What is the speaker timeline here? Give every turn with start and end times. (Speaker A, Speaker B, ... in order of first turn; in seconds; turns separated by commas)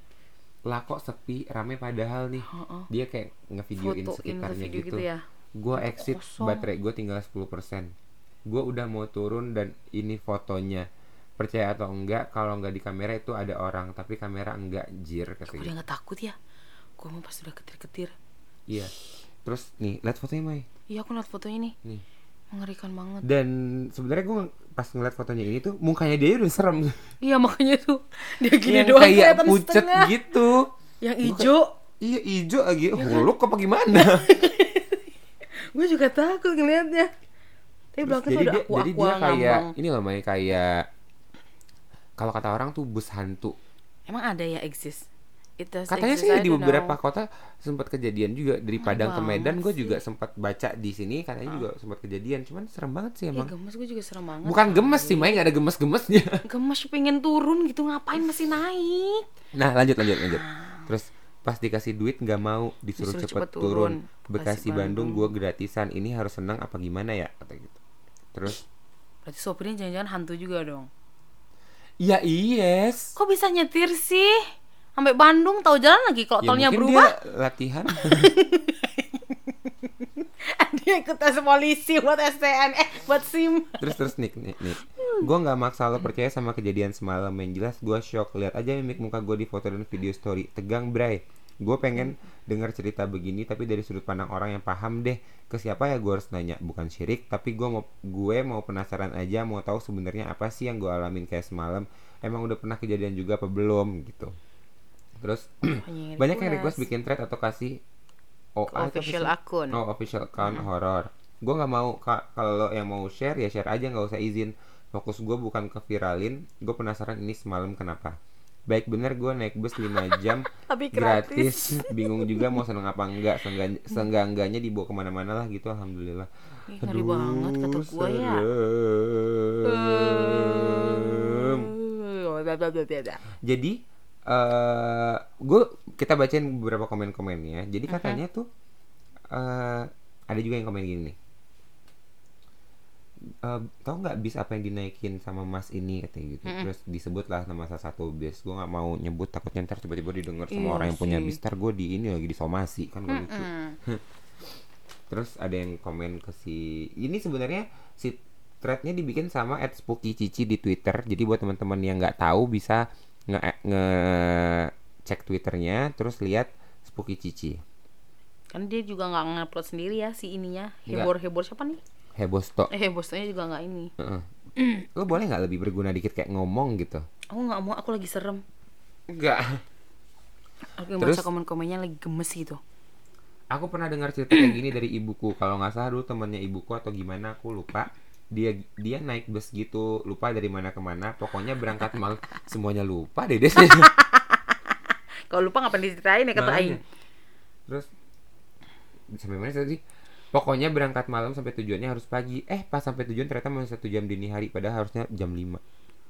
Speaker A: 0.7-5.1, Speaker B: 2.5-2.9, Speaker B: 3.8-6.7, Speaker A: 5.6-7.9, Speaker A: 8.5-10.9, Speaker A: 11.4-15.7, Speaker B: 15.5-16.4, Speaker B: 17.0-18.1, Speaker A: 18.7-18.9, Speaker A: 19.4-20.7, Speaker B: 20.9-21.8, Speaker B: 22.5-23.2, Speaker A: 23.2-27.1, Speaker B: 27.2-30.1, Speaker A: 28.6-30.7, Speaker B: 31.0-31.7, Speaker A: 31.2-34.3, Speaker B: 33.0-33.3, Speaker B: 33.9-37.1, Speaker B: 38.0-39.7, Speaker A: 38.0-40.9, Speaker A: 42.2-43.5, Speaker B: 44.1-45.1, Speaker B: 45.6-47.0, Speaker A: 45.9-53.5, Speaker B: 48.8-50.0, Speaker B: 53.4-55.4, Speaker A: 54.5-56.4, Speaker B: 56.5-59.3, Speaker A: 59.5-67.8, Speaker B: 60.2-60.8, Speaker B: 63.0-65.3, Speaker A: 68.3-68.6, Speaker B: 69.2-70.9, Speaker A: 72.0-73.2, Speaker B: 73.2-77.1, Speaker A: 76.4-78.3, Speaker B: 78.0-84.0, Speaker A: 83.8-104.3, Speaker B: 85.0-85.2, Speaker A: 105.2-107.8, Speaker B: 105.7-106.9, Speaker A: 108.6-118.2, Speaker B: 108.7-109.8, Speaker B: 110.4-110.7, Speaker A: 118.7-126.3, Speaker B: 119.9-122.6, Speaker B: 126.7-128.4, Speaker A: 126.8-131.7, Speaker B: 129.7-133.2, Speaker A: 133.4-133.8, Speaker A: 134.3-138.4, Speaker B: 137.9-138.2, Speaker A: 139.3-141.2, Speaker A: 143.4-154.0, Speaker B: 150.5-151.4, Speaker B: 153.1-153.8, Speaker A: 155.1-167.6, Speaker B: 168.5-171.8, Speaker A: 172.2-172.7, Speaker B: 172.7-173.9, Speaker A: 174.0-174.3, Speaker B: 174.6-174.9, Speaker A: 174.9-177.1, Speaker B: 177.3-178.4, Speaker A: 179.1-179.6, Speaker B: 180.8-182.6, Speaker A: 181.0-181.2, Speaker A: 183.5-193.9, Speaker B: 193.6-196.8, Speaker A: 196.3-196.8, Speaker A: 199.1-199.8, Speaker A: 200.3-205.6